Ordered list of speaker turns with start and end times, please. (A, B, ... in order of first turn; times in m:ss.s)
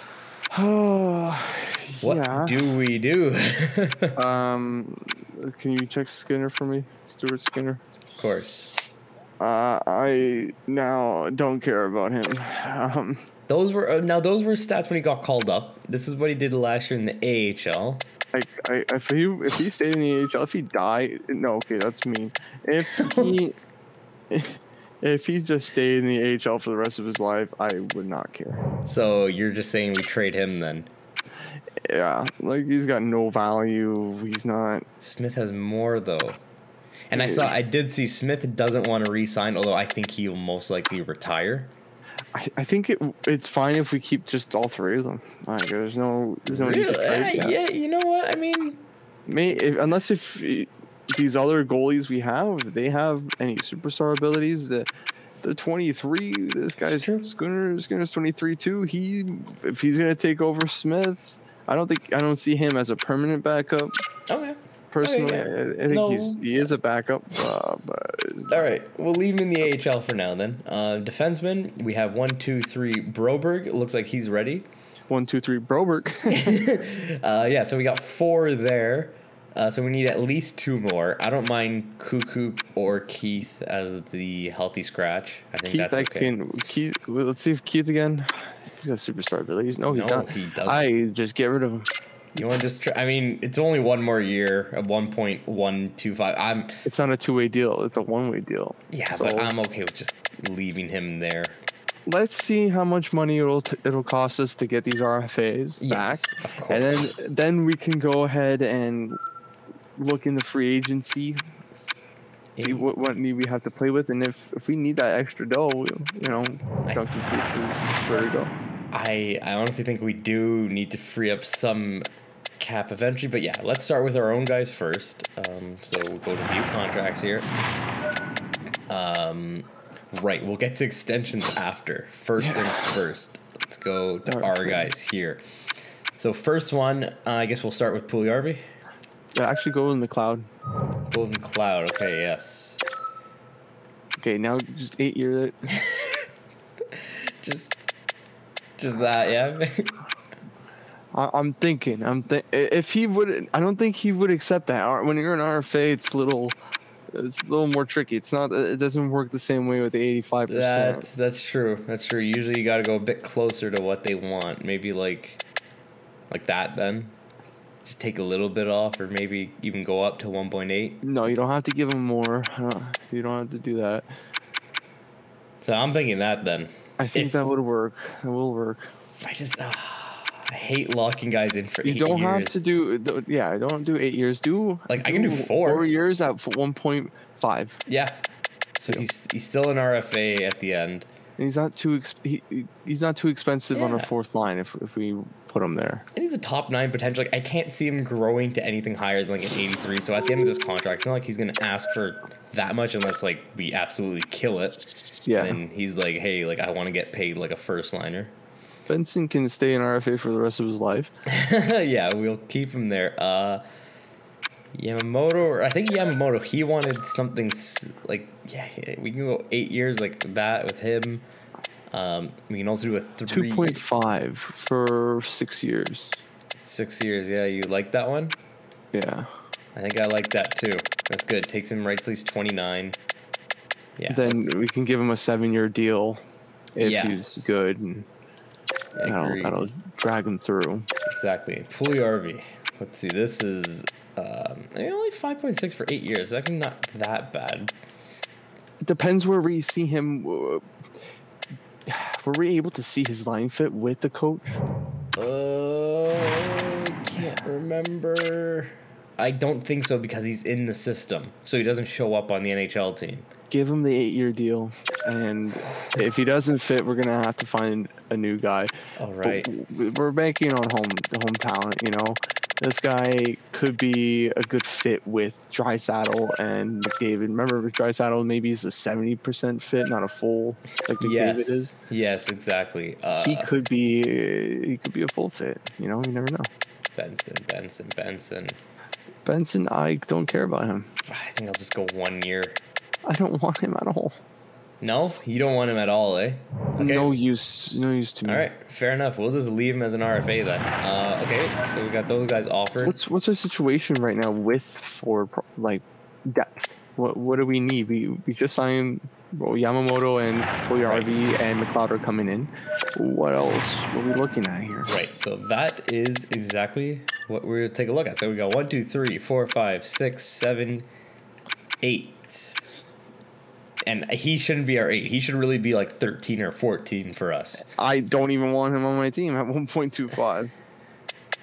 0:00.5-0:02.6 A
0:02.0-0:04.2 B
0:04.2-0:07.8 A
0:08.2-0:08.7 B
0:09.4-0:13.2 A
0:13.5-0:18.0 B
0:18.3-0:23.6 A
0:22.8-0:23.4 B
0:24.3-0:28.6 A
0:28.9-0:30.9 B
0:31.8-0:34.9 A
0:35.0-0:36.4 B
0:37.1-0:41.7 B
0:37.1-0:37.5 A
0:42.3-0:47.6 A
0:46.5-0:48.8 B
0:49.3-0:54.9 A
0:55.4-1:03.9 A
0:56.9-0:57.3 B
1:04.3-1:06.4 B
1:04.9-1:08.7 A
1:08.5-1:14.7 B
1:15.1-1:16.7 A
1:16.3-1:26.3 B
1:25.6-1:31.9 A
1:29.9-1:30.9 B
1:32.4-1:36.8 B
1:36.8-1:39.5 A
1:38.9-1:41.6 B
1:42.1-1:49.2 A
1:45.8-1:46.9 B
1:50.0-1:51.4 A
1:52.6-1:52.9 B
1:52.6-1:58.5 A
1:58.9-2:02.0 B
2:02.6-2:07.5 B
2:08.9-2:15.4 B
2:12.4-2:12.9 A
2:14.3-2:14.9 A
2:16.2-2:18.6 B
2:19.4-2:20.5 A
2:21.1-2:22.8 B
2:24.2-2:25.6 A
2:25.7-2:26.3 B
2:26.9-2:27.9 B
2:28.8-2:29.9 B
2:31.1-2:36.6 A
2:37.1-2:41.1 A
2:40.5-2:45.4 B
2:46.3-2:47.2 B
2:47.8-2:51.0 B
2:51.0-2:54.1 A
2:55.6-2:57.5 B
2:57.0-2:58.9 A
2:59.2-3:02.6 B
3:01.8-3:07.8 A
3:04.9-3:06.0 B
3:07.9-3:08.2 B
3:08.8-3:09.1 A
3:08.8-3:11.1 B
3:11.4-3:16.0 A
3:13.7-3:14.1 B
3:16.1-3:24.8 B
3:25.3-3:25.6 A
3:25.4-3:28.3 B
3:28.9-3:31.1 A
3:31.3-3:33.6 B
3:34.7-3:41.2 B
3:41.9-3:43.8 B
3:43.3-3:46.2 A
3:46.6-3:48.4 B
3:48.9-3:49.3 A
3:49.7-3:53.0 B
3:54.0-3:54.5 B
3:54.1-3:56.2 A
3:56.8-3:58.1 A
3:56.8-3:57.2 B
3:59.0-3:59.7 B
3:59.0-4:00.9 A
4:01.1-4:07.7 B
4:08.8-4:10.6 A
4:11.9-4:14.6 A
4:15.2-4:23.3 B
4:23.5-4:28.7 A
4:29.0-4:29.5 B
4:29.2-4:41.7 A
4:41.0-4:43.5 B
4:43.2-4:46.5 A
4:47.0-4:48.6 B
4:49.2-4:50.9 A
4:51.1-4:52.6 B
4:53.1-4:54.2 A
4:54.8-4:57.2 B
4:56.8-4:58.5 A
4:58.2-5:03.0 B
5:02.8-5:14.9 A
5:10.9-5:11.2 B
5:14.9-5:20.9 B
5:21.8-5:22.6 B
5:23.8-5:27.7 B
5:27.6-5:30.5 A